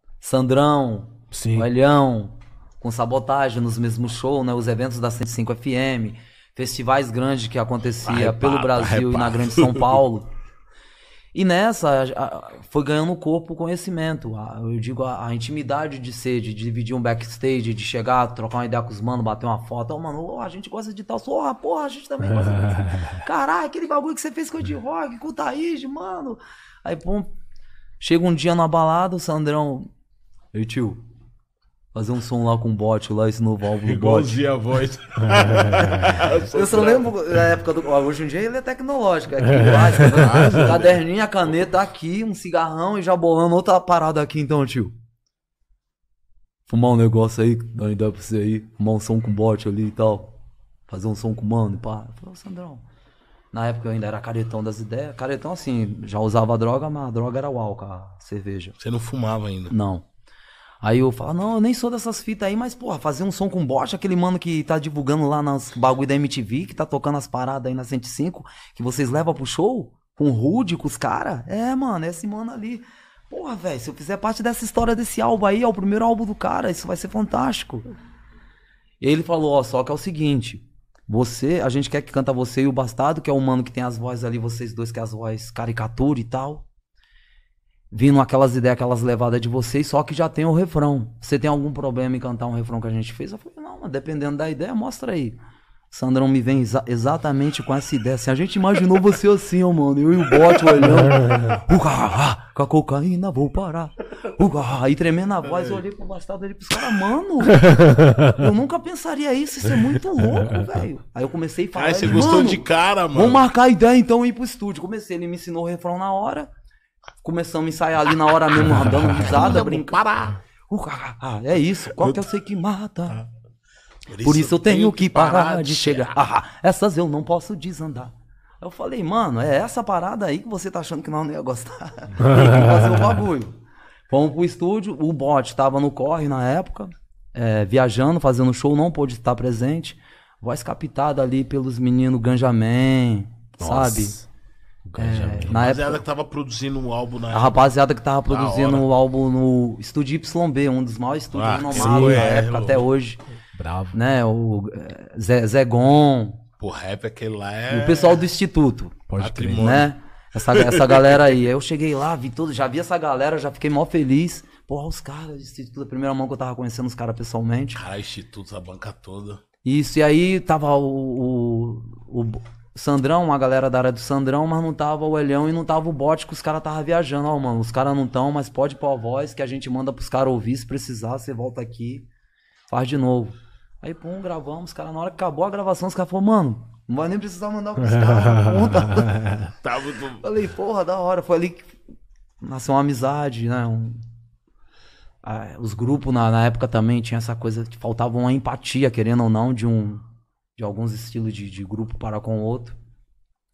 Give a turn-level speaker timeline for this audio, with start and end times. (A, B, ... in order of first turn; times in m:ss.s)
0:00.2-0:10.3 A
0:01.3-0:01.7 B
0:08.0-0:10.0 C
0:11.3-0:27.3 A
0:28.0-0:29.9 A
0:30.5-0:31.0 A
0:31.9-0:34.4 A
0:33.8-0:37.1 C
0:36.5-0:44.9 A
0:39.5-0:40.9 C
0:46.7-0:50.3 A
0:50.9-0:52.8 A
0:53.5-0:58.8 A
0:58.8-0:59.7 C
0:59.7-1:00.0 A
1:00.8-1:17.8 A
1:19.0-1:26.7 A
1:27.9-1:35.4 A
1:35.9-1:56.5 A
1:45.4-1:45.8 C
1:51.8-1:53.5 C
1:57.2-2:00.0 A
1:59.1-2:00.4 C
2:00.7-2:03.2 A
2:04.1-2:06.2 C
2:04.2-2:13.6 A
2:14.1-2:24.2 A
2:23.6-2:24.2 B
2:24.8-2:25.6 B
2:25.0-2:26.0 A
2:25.4-2:27.6 C
2:27.3-2:33.2 A
2:28.3-2:28.9 C
2:31.3-2:32.8 C
2:31.8-2:32.3 B
2:33.5-2:34.0 B
2:33.9-2:36.4 A
2:36.6-2:38.2 C
2:37.7-2:47.8 A
2:39.1-2:39.7 B
2:39.2-2:41.3 C
2:47.8-2:49.4 C
2:49.6-3:02.1 A
3:02.7-3:09.5 A
3:09.6-3:10.2 C
3:10.2-3:11.8 A
3:12.4-3:14.0 A
3:15.2-3:20.0 A
3:20.6-3:22.8 A